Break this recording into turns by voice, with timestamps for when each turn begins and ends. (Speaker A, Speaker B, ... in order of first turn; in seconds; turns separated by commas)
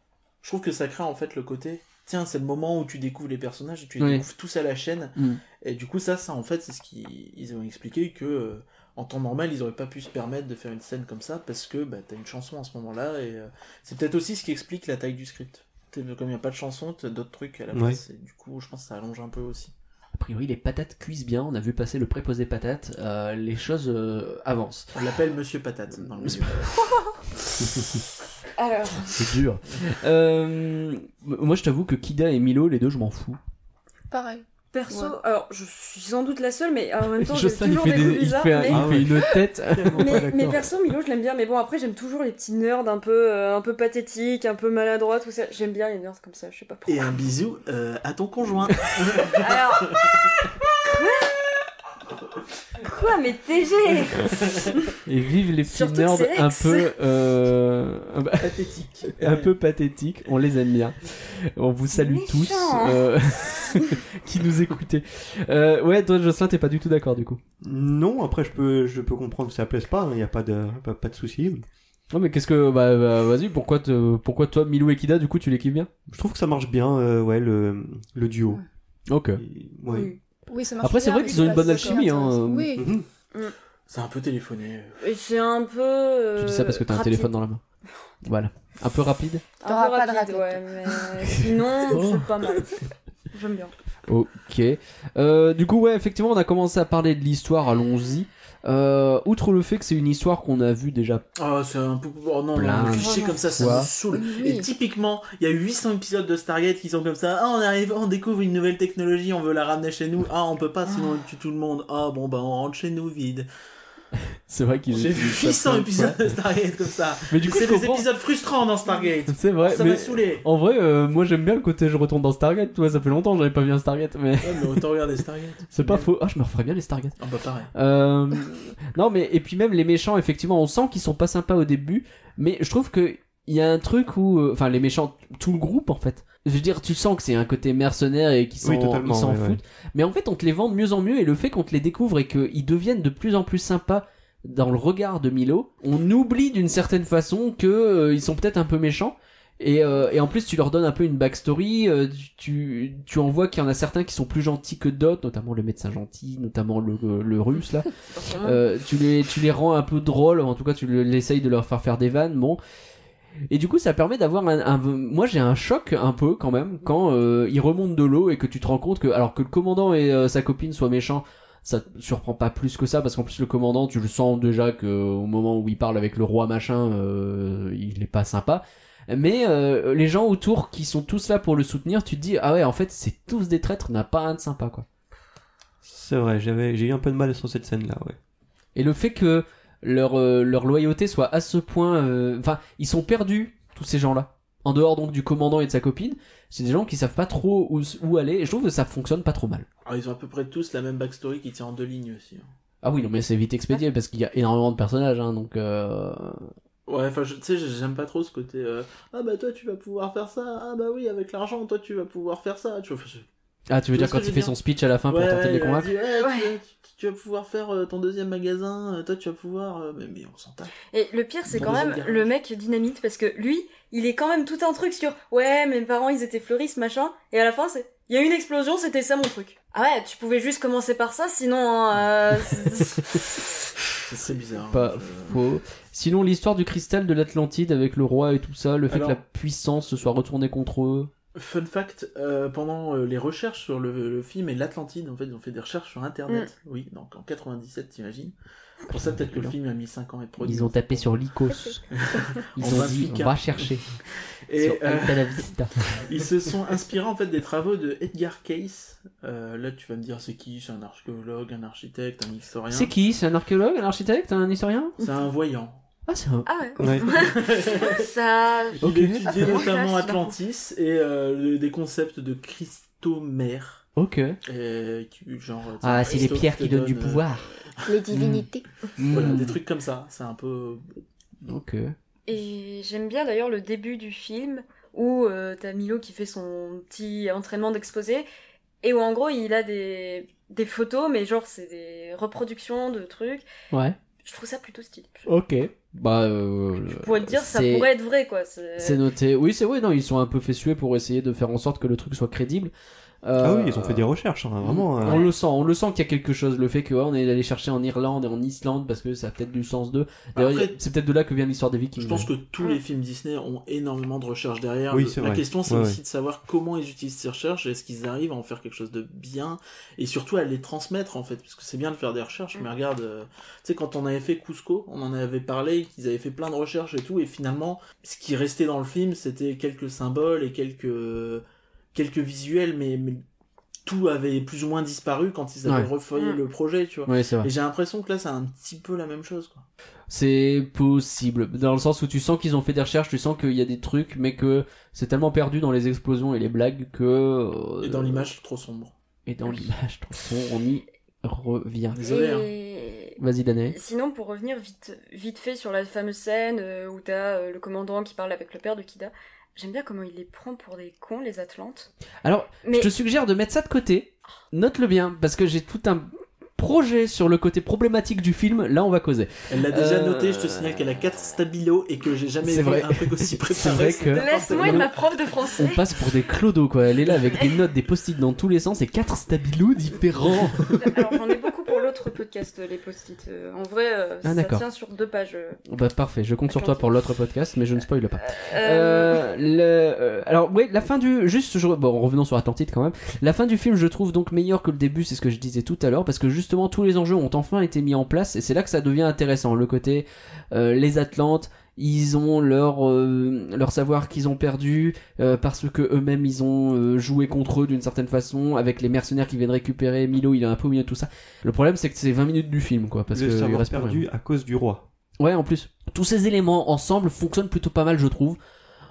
Speaker A: 0.4-19.7, Speaker B: 4.0-4.2, Speaker C: 17.7-18.0, Speaker B: 20.1-24.9, Speaker A: 24.9-26.7, Speaker B: 26.2-26.5, Speaker D: 28.6-29.3, Speaker B: 29.1-33.4, Speaker E: 34.1-35.1, Speaker D: 34.7-38.9, Speaker B: 37.2-40.6, Speaker C: 38.6-40.7, Speaker D: 40.0-47.1, Speaker A: 46.9-50.2, Speaker D: 49.3-51.5, Speaker D: 52.8-55.0, Speaker B: 55.0-58.5, Speaker D: 55.7-56.9, Speaker A: 58.4-59.5, Speaker B: 59.1-67.4, Speaker D: 61.9-63.1, Speaker C: 67.6-71.7, Speaker B: 72.1-75.9, Speaker C: 76.1-78.6, Speaker B: 79.1-79.4, Speaker C: 79.4-80.1, Speaker D: 79.9-80.2, Speaker E: 80.5-82.9, Speaker B: 80.8-82.8, Speaker C: 82.8-83.1, Speaker A: 83.9-85.0, Speaker D: 85.0-87.3, Speaker B: 86.4-87.6, Speaker B: 88.2-89.4, Speaker D: 89.6-93.8, Speaker E: 89.7-91.1, Speaker B: 91.8-92.3, Speaker B: 94.1-101.2, Speaker A: 101.4-113.5, Speaker B: 102.5-103.9, Speaker D: 102.9-103.4, Speaker E: 104.1-104.7, Speaker B: 114.5-116.3, Speaker A: 114.9-120.5, Speaker B: 117.3-118.1, Speaker B: 119.3-124.8, Speaker A: 124.4-126.1, Speaker B: 125.7-127.2, Speaker A: 127.2-127.7, Speaker B: 127.7-162.6, Speaker C: 138.6-139.6, Speaker D: 158.1-158.6, Speaker B: 163.5-184.9, Speaker C: 185.8-188.2, Speaker B: 188.8-199.7, Speaker A: 199.8-202.5, Speaker B: 202.8-206.5, Speaker A: 206.9-213.3, Speaker B: 213.7-215.9, Speaker A: 213.9-214.6, Speaker A: 215.1-220.7, Speaker D: 216.2-216.5, Speaker D: 220.9-233.4, Speaker A: 221.5-222.3, Speaker A: 234.1-235.4, Speaker B: 234.7-241.1, Speaker A: 238.9-239.2, Speaker A: 241.3-248.3, Speaker A: 248.9-251.1, Speaker B: 248.9-249.6, Speaker B: 250.4-251.8, Speaker D: 251.5-251.8, Speaker A: 251.9-253.8, Speaker B: 252.6-254.0, Speaker A: 254.5-255.5, Speaker B: 254.6-256.0, Speaker A: 256.0-262.9, Speaker B: 262.7-265.0, Speaker A: 265.0-265.8, Speaker B: 266.1-266.5, Speaker D: 266.5-270.3, Speaker C: 266.8-267.1, Speaker A: 267.1-268.1, Speaker A: 268.8-273.9, Speaker B: 268.8-269.2, Speaker B: 274.0-274.4, Speaker A: 274.5-277.9, Speaker B: 275.8-277.5, Speaker E: 277.9-278.7, Speaker B: 278.1-278.4, Speaker B: 279.0-279.6, Speaker A: 279.0-280.9, Speaker B: 281.4-281.9, Speaker D: 282.3-288.3, Speaker D: 288.8-293.5, Speaker B: 293.7-294.0, Speaker D: 294.2-295.3, Speaker B: 295.3-297.9, Speaker D: 296.9-299.0, Speaker B: 298.8-302.7, Speaker B: 303.2-304.1, Speaker C: 303.4-305.2, Speaker B: 304.6-312.3, Speaker D: 305.0-305.3, Speaker A: 310.4-310.8, Speaker A: 312.0-333.2, Speaker C: 314.9-316.0, Speaker A: 333.9-339.7, Speaker D: 336.1-336.4, Speaker B: 337.1-337.5, Speaker B: 340.1-348.3, Speaker A: 347.8-348.9, Speaker B: 349.3-352.0, Speaker A: 351.9-352.5, Speaker D: 352.1-353.2, Speaker B: 353.2-353.8, Speaker D: 353.7-361.9, Speaker B: 362.2-370.8, Speaker D: 362.6-362.9, Speaker A: 369.5-375.1, Speaker B: 372.4-374.9, Speaker D: 373.8-375.8, Speaker B: 375.6-381.0, Speaker D: 380.8-385.6, Speaker B: 384.2-384.6, Speaker B: 385.7-414.1, Speaker D: 386.5-386.9, Speaker D: 388.2-389.2, Speaker C: 413.1-414.9, Speaker B: 415.2-418.4